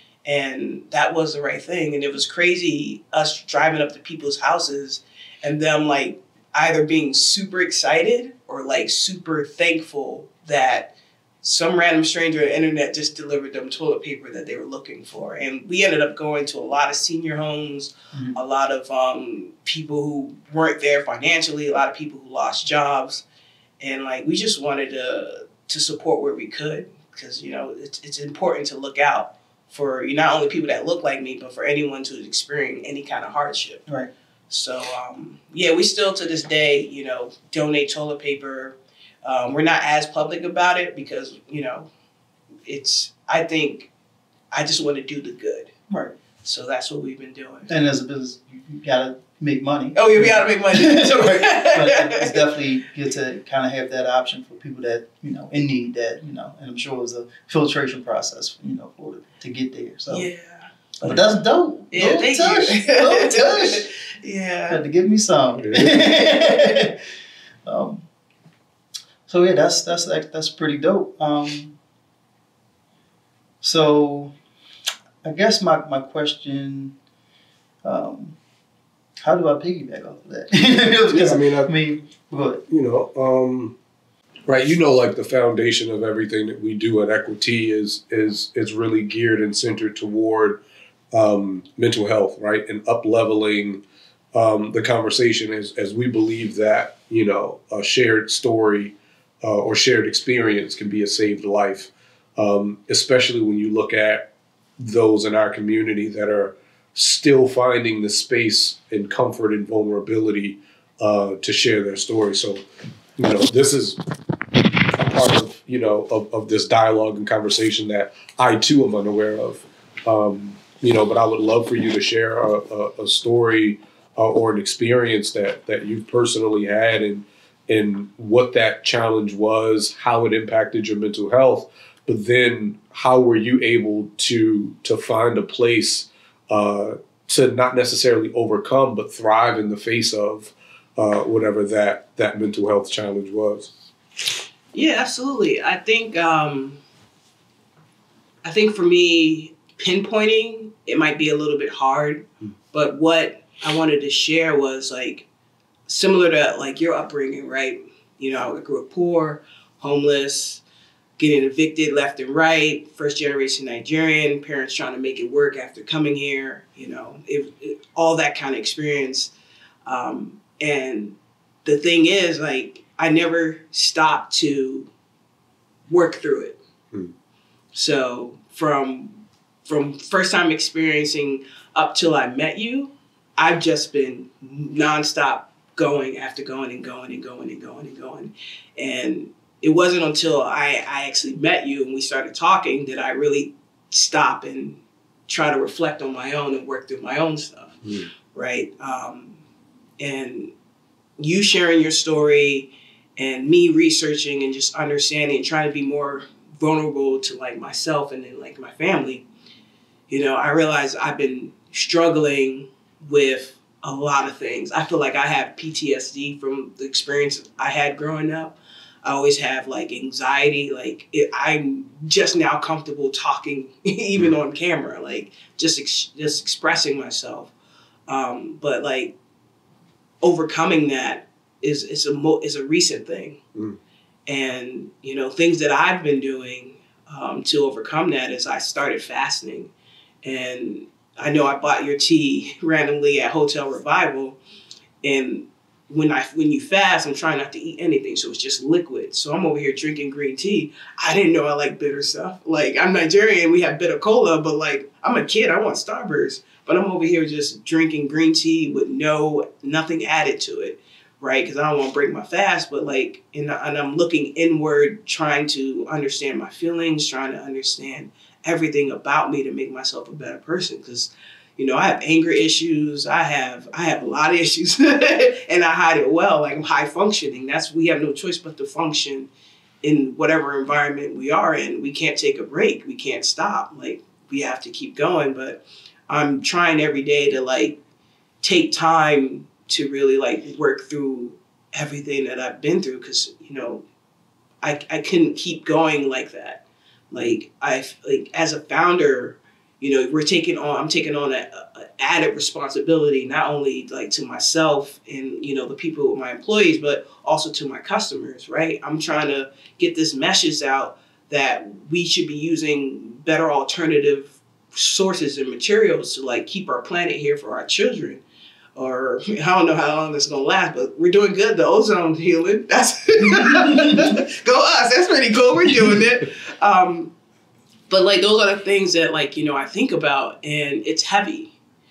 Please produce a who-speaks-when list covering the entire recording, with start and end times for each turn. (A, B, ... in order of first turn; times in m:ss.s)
0:00.2-0:23.2 A
0:23.8-0:33.9 A
0:34.5-0:41.9 A
0:42.6-0:43.9 A
0:44.5-0:45.7 A
0:45.9-0:46.1 B
0:46.4-0:47.7 A
0:47.7-1:00.3 B
0:49.9-0:52.5 A
1:00.1-1:01.2 A
1:01.0-1:03.9 B
1:01.9-1:04.8 A
1:04.7-1:07.0 B
1:05.6-1:06.1 C
1:07.6-1:08.0 B
1:09.3-1:11.8 B
1:13.6-1:14.3 B
1:15.2-1:16.9 B
1:17.8-1:18.4 B
1:19.2-1:22.6 B
1:21.1-1:21.7 C
1:22.7-1:23.8 C
1:24.5-1:33.8 C
1:34.3-1:52.6 C
1:53.2-1:54.0 C
1:55.0-2:23.7 C
2:24.7-2:26.8 A
2:28.4-2:35.3 A
2:35.9-2:40.6 A
2:41.2-2:49.3 A
2:49.8-2:54.9 A
2:55.9-2:56.6 A
2:57.7-3:19.4 A
3:17.8-3:18.1 C
3:20.0-3:20.5 A
3:21.2-3:29.2 A
3:30.1-3:47.5 A
3:48.1-3:49.1 A
3:50.2-3:53.4 A
3:54.3-3:59.7 A
4:00.2-4:04.4 A
4:05.0-4:39.3 A
4:39.8-4:47.8 A
4:48.4-4:53.8 A
4:54.6-5:18.2 A
5:18.8-5:27.1 A
5:23.2-5:24.2 B
5:27.9-5:31.5 A